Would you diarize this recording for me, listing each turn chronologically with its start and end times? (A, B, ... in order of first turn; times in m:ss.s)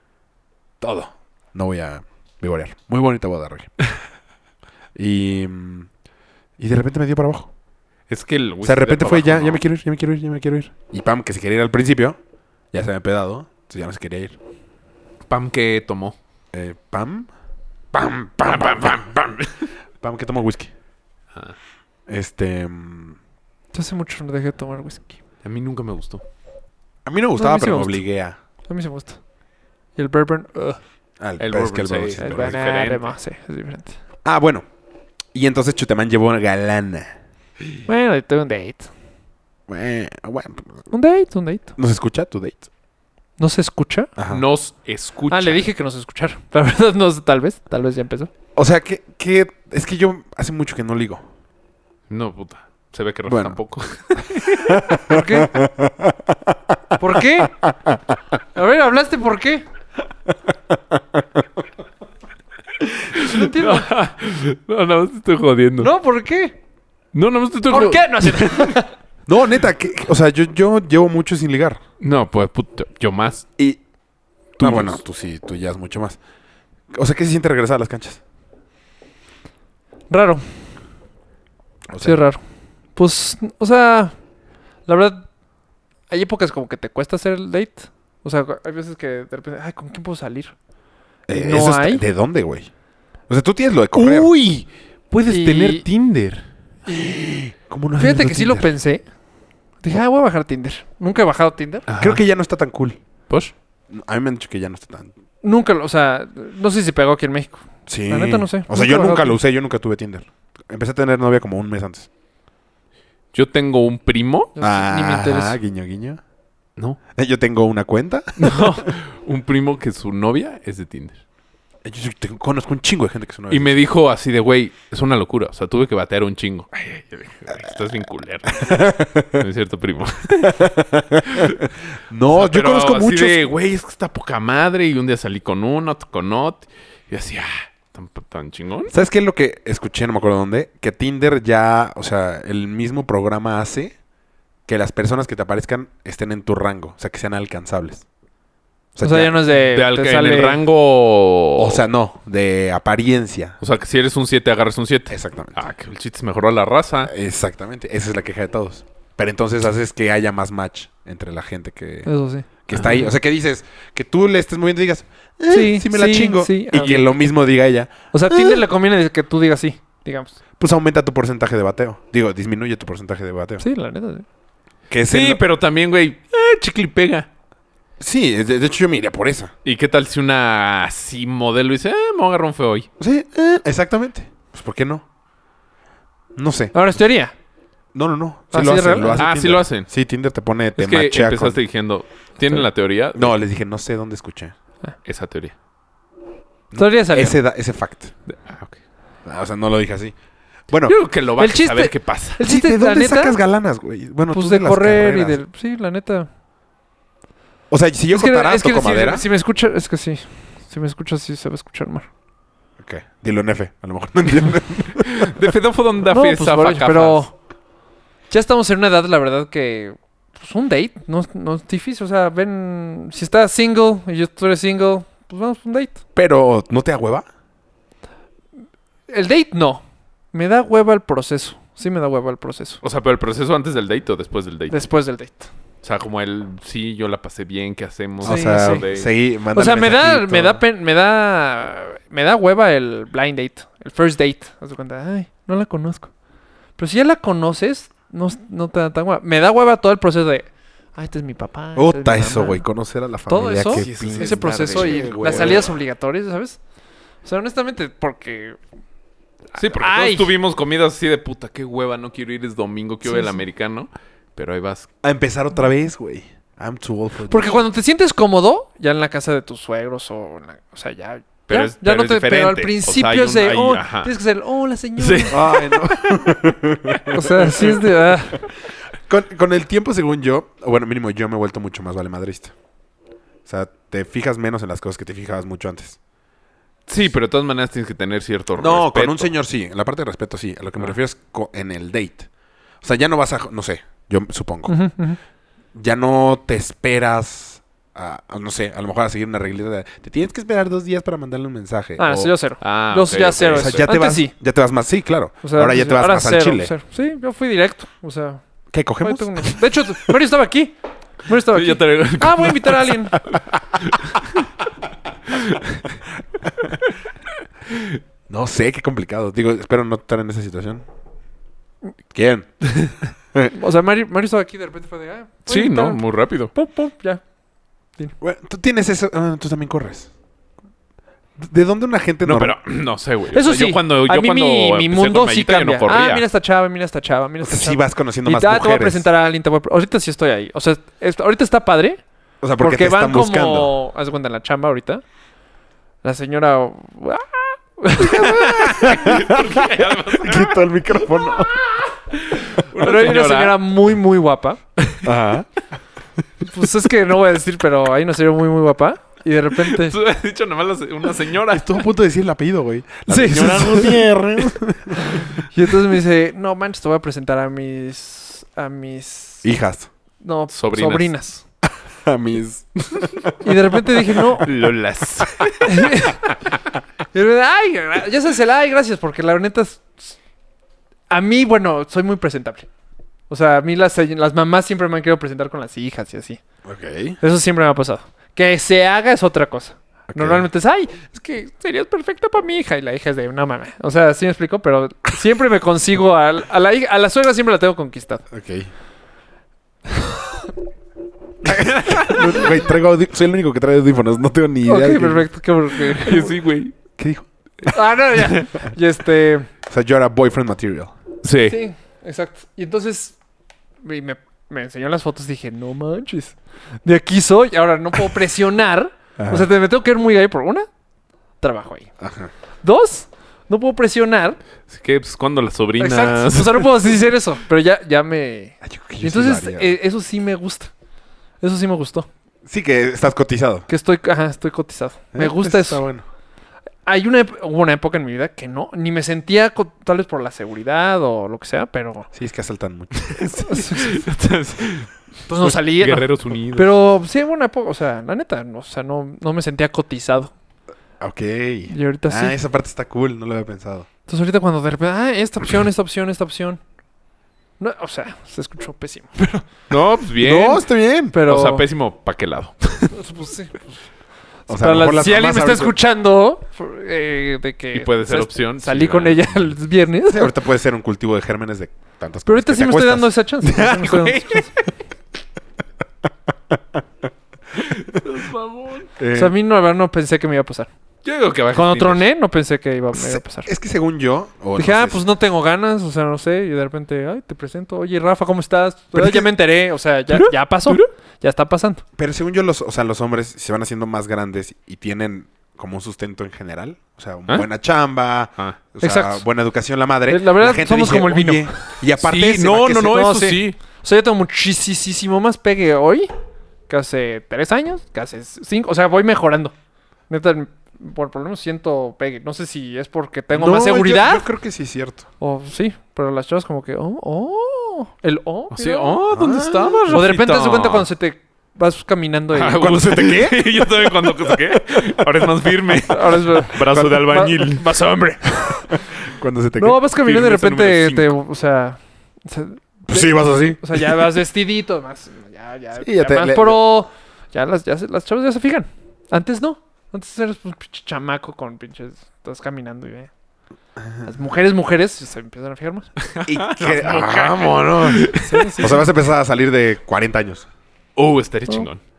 0:00.8-0:03.7 A
0:05.0-0:05.9 A
0:06.6-0:07.5 A
0:08.1-0:09.6 B
0:08.6-0:12.2 A
0:12.7-0:14.4 A
0:15.3-0:16.2 B
0:16.5-0:17.3 A
0:17.9-0:19.4 A
0:18.4-0:19.5 B
0:20.0-0:20.7 A
0:22.1-0:23.2 A
0:23.7-0:25.2 C
0:25.4-0:26.2 B
0:27.0-0:28.4 A
0:27.4-0:28.0 C
0:28.7-0:29.2 C
0:30.0-0:30.8 C
0:31.2-0:32.6 A
0:31.4-0:33.2 B
0:32.2-0:34.0 C
0:34.2-0:34.7 A
0:35.3-0:37.1 A
0:37.9-0:38.9 C
0:39.7-0:40.8 A
0:40.9-0:41.7 C
0:41.8-0:42.7 A
0:43.4-0:44.1 C
0:44.2-0:44.4 A
0:44.3-0:45.6 B
0:45.3-0:48.3 C
0:48.6-0:51.2 A
0:52.1-0:54.8 B
0:53.3-0:53.6 A
0:54.5-0:56.6 A
0:55.1-0:55.5 C
0:57.0-0:57.6 C
0:57.6-0:58.0 A
0:58.6-0:59.6 C
1:00.9-1:01.2 A
1:03.2-1:05.9 B
1:03.2-1:03.9 C
1:05.8-1:06.6 C
1:07.1-1:08.7 B
1:07.7-1:08.9 C
1:09.3-1:11.8 A
1:12.0-1:13.5 B
1:14.6-1:15.0 B
1:14.6-1:16.2 A
1:16.9-1:18.2 A
1:20.1-1:20.4 C
1:21.9-1:22.2 A
1:22.0-1:22.4 C
1:23.0-1:24.2 C
1:24.9-1:25.3 C
1:26.1-1:30.5 C
1:31.3-1:32.7 A
1:31.3-1:32.0 C
1:33.3-1:34.3 A
1:33.9-1:36.5 B
1:35.3-1:35.9 C
1:36.9-1:37.2 C
1:36.9-1:38.7 A
1:38.0-1:39.0 C
1:39.8-1:41.9 C
1:41.9-1:42.2 B
1:42.0-1:43.0 A
1:43.9-1:45.1 A
1:45.4-1:49.4 C
1:47.9-1:52.1 A
1:53.3-1:54.5 B
1:54.6-1:55.6 C
1:54.6-1:56.2 A
1:57.2-1:58.9 A
1:58.4-2:01.2 B
2:01.8-2:03.8 A
2:03.5-2:10.7 B
2:08.6-2:09.4 A
2:10.5-2:13.5 A
2:11.2-2:11.6 B
2:12.3-2:18.9 B
2:18.9-2:24.0 A
2:24.7-2:28.0 A
2:29.0-2:29.4 A
2:29.0-2:30.6 C
2:29.5-2:31.8 B
2:31.6-2:33.6 A
2:33.6-2:37.1 B
2:35.1-2:35.6 A
2:37.0-2:42.1 A
2:42.1-2:42.5 C
2:42.7-2:48.6 A
2:42.7-2:43.1 B
2:45.5-2:47.1 C
2:48.1-2:50.4 C
2:50.6-2:53.6 A
2:53.6-2:54.2 C
2:54.9-2:55.4 A
2:55.1-2:57.3 B
2:58.0-2:59.5 A
2:59.6-3:02.9 B
3:03.0-3:05.0 A
3:06.4-3:06.9 A
3:06.7-3:07.3 C
3:07.9-3:11.6 A
3:08.5-3:09.2 C
3:09.2-3:09.9 B
3:10.8-3:13.3 B
3:13.1-3:14.5 A
3:15.0-3:15.5 B
3:16.7-3:18.1 A
3:16.8-3:17.4 C
3:18.3-3:18.8 B
3:19.2-3:20.2 A
3:20.7-3:21.0 A
3:20.9-3:22.4 B
3:21.4-3:23.4 C
3:22.4-3:25.4 A
3:24.3-3:26.3 C
3:27.7-3:29.2 A
3:28.1-3:32.1 C
3:32.8-3:35.3 A
3:35.0-3:37.3 B
3:36.1-3:37.3 C
3:38.3-3:46.0 C
3:46.2-3:47.3 A
3:49.1-3:52.8 C
3:52.8-3:54.8 B
3:54.7-3:55.5 C
3:55.8-3:59.1 B
3:58.2-4:00.6 A
3:58.2-3:58.8 C
3:59.5-4:06.1 C
4:06.8-4:12.7 C
4:11.8-4:15.8 A
4:13.3-4:16.6 C
4:13.7-4:15.7 B
4:17.2-4:18.6 C
4:19.5-4:20.3 C
4:19.6-4:24.9 B
4:23.0-4:23.4 C
4:25.0-4:27.6 A
4:27.3-4:35.4 C
4:31.5-4:34.1 B
4:35.0-4:35.9 B
4:35.3-4:38.4 A
4:37.1-4:38.4 C
4:39.1-4:42.5 A
4:43.5-4:46.0 A
4:46.9-4:49.3 B
4:48.6-4:52.3 A
4:52.8-4:54.8 A
4:54.7-4:55.2 C
4:55.7-5:02.3 A
5:02.0-5:04.3 C
5:02.6-5:03.9 B
5:03.5-5:06.7 A
5:05.4-5:08.4 C
5:08.7-5:09.6 A
5:09.0-5:13.2 C
5:11.5-5:14.5 B
5:15.3-5:15.8 B
5:17.7-5:18.0 B
5:18.3-5:20.8 A
5:22.1-5:22.7 A
5:23.5-5:27.2 C
5:25.5-5:26.5 B
5:28.2-5:30.1 A
5:31.4-5:32.6 A
5:32.2-5:36.2 B
5:33.3-5:42.0 C
5:37.4-5:39.1 A
5:42.4-5:43.7 A
5:42.6-5:45.0 C
5:46.0-5:49.1 C
5:48.0-5:51.6 A
5:48.8-5:50.6 B
5:52.1-5:53.7 B
5:52.8-5:54.6 C
5:55.0-5:55.5 A
5:56.5-6:00.0 C
5:59.6-6:01.8 B
6:01.5-6:05.4 A
6:03.1-6:04.1 C
6:05.1-6:09.5 C
6:09.4-6:09.9 A
6:10.2-6:11.4 C
6:10.5-6:11.1 B
6:11.9-6:13.3 A
6:13.4-6:14.5 C
6:14.4-6:15.9 B
6:15.6-6:16.4 C
6:17.1-6:20.2 C
6:21.1-6:22.7 C
6:23.3-6:26.4 C
6:26.6-6:27.2 A
6:27.2-6:38.3 C
6:30.1-6:30.4 A
6:38.3-6:38.7 A
6:41.4-6:45.3 A
6:41.6-6:42.3 B
6:44.7-6:46.3 C
6:45.9-6:46.8 B
6:47.0-6:47.3 A
6:47.7-6:49.5 C
6:49.7-6:51.0 A
6:51.2-6:51.6 B
6:51.5-6:53.2 C
6:53.8-7:00.7 C
6:59.2-6:59.5 A
7:01.4-7:01.9 C
7:02.0-7:02.3 A
7:02.6-7:04.4 C
7:04.7-7:06.9 B
7:05.8-7:10.7 C
7:08.6-7:09.8 A
7:11.4-7:12.1 C
7:12.4-7:13.7 A
7:13.7-7:15.8 C
7:15.1-7:16.0 A
7:16.9-7:22.1 C
7:22.1-7:23.2 A
7:23.0-7:26.7 B
7:23.5-7:24.0 C
7:25.3-7:30.3 C
7:31.0-7:33.9 A
7:31.7-7:32.4 C
7:34.1-7:36.6 C
7:37.6-7:39.5 C
7:39.7-7:40.7 B
7:40.2-7:41.2 A
7:41.1-7:41.6 C
7:41.3-7:43.0 B
7:42.9-7:43.7 C
7:44.5-7:45.8 A
7:44.5-7:50.3 C
7:47.7-7:49.5 B
7:50.1-7:53.8 A
7:52.3-7:54.5 C
7:53.5-7:54.7 B
7:57.6-7:58.9 B
7:59.0-7:59.4 A
7:59.1-8:00.7 C
8:01.0-8:02.1 B
8:01.5-8:03.5 C
8:02.9-8:05.0 A
8:04.6-8:11.8 C
8:09.0-8:09.3 A
8:10.1-8:10.9 B
8:12.0-8:23.0 A
8:18.8-8:19.2 C
8:20.1-8:21.5 C
8:22.0-8:23.6 B
8:22.8-8:26.1 C
8:26.7-8:29.6 C
8:30.1-8:34.3 C
8:33.3-8:35.1 A
8:35.2-8:39.0 C
8:38.5-8:40.9 B
8:39.1-8:40.0 A
8:39.9-8:42.6 C
8:42.3-8:47.7 B
8:42.6-8:44.6 A
8:45.9-8:48.7 C
8:46.6-8:47.2 A
8:49.0-8:49.9 A
8:49.6-9:03.1 C
8:50.0-8:51.0 B
8:52.9-8:54.1 A
8:55.8-8:56.6 A
9:03.8-9:04.1 A
9:04.0-9:05.9 C
9:06.0-9:08.7 B
9:06.3-9:10.5 A
9:08.2-9:08.8 C
9:11.0-9:11.8 B